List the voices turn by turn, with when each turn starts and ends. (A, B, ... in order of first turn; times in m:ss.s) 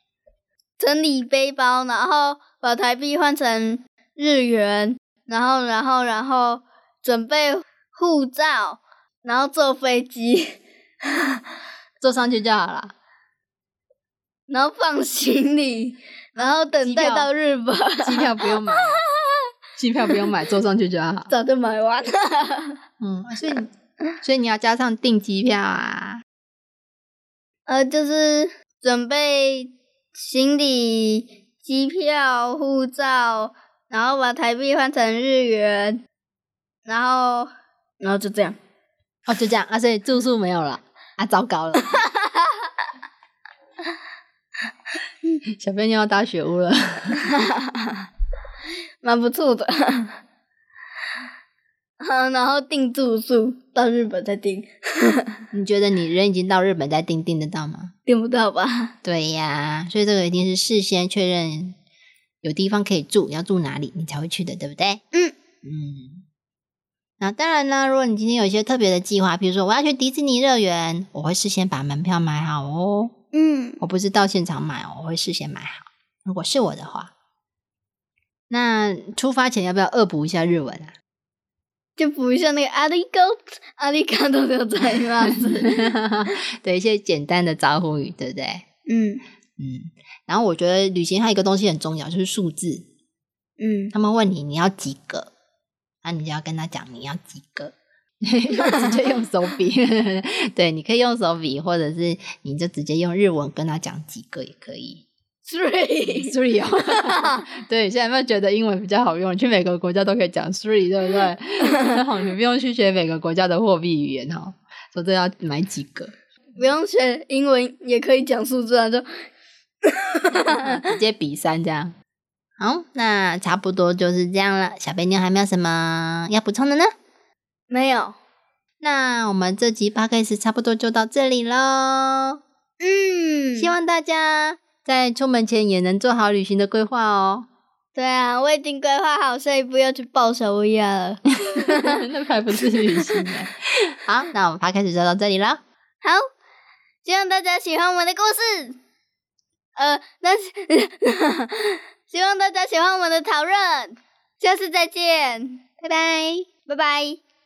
0:00.8-0:11.4 A
0:12.0-0:12.9 B
0:14.5-0:19.4 A
0:16.4-0:17.3 B
0:18.0-0:19.0 B
0:19.8-0:21.3 B
0:21.3-0:22.8 A
0:23.0-0:23.7 B
0:24.2-0:26.2 B
0:27.7-0:36.0 A
0:36.9-0:38.6 A
0:39.3-0:42.0 B
0:41.9-0:42.6 A
0:45.5-0:47.3 B
0:47.2-0:48.0 A
0:49.0-0:50.2 A
0:52.0-0:55.4 A
0:55.5-0:57.9 B
0:58.1-0:58.9 A
0:59.0-1:01.8 B
1:02.4-1:05.0 B
1:05.6-1:06.2 B
1:07.2-1:13.1 B
1:13.3-1:13.8 A
1:13.8-1:17.1 B
1:18.5-1:20.9 B
1:22.0-1:26.0 A
1:25.2-1:28.6 B
1:28.9-1:29.2 A
1:29.6-1:32.9 B
1:33.6-1:33.9 A
1:33.9-1:35.3 B
1:36.0-1:45.1 B
1:38.5-1:39.0 A
1:45.4-1:47.4 A
1:46.1-1:56.1 B
1:56.6-1:59.1 A
1:59.8-2:00.9 A
2:00.5-2:01.9 B
2:02.6-2:06.9 B
2:07.7-2:08.2 A
2:08.8-2:12.4 B
2:12.8-2:13.7 A
2:13.6-2:17.5 B
2:18.0-2:22.0 A
2:21.4-2:25.6 B
2:27.0-2:28.8 A
2:29.8-2:35.6 A
2:35.8-2:36.5 B
2:36.7-2:37.2 A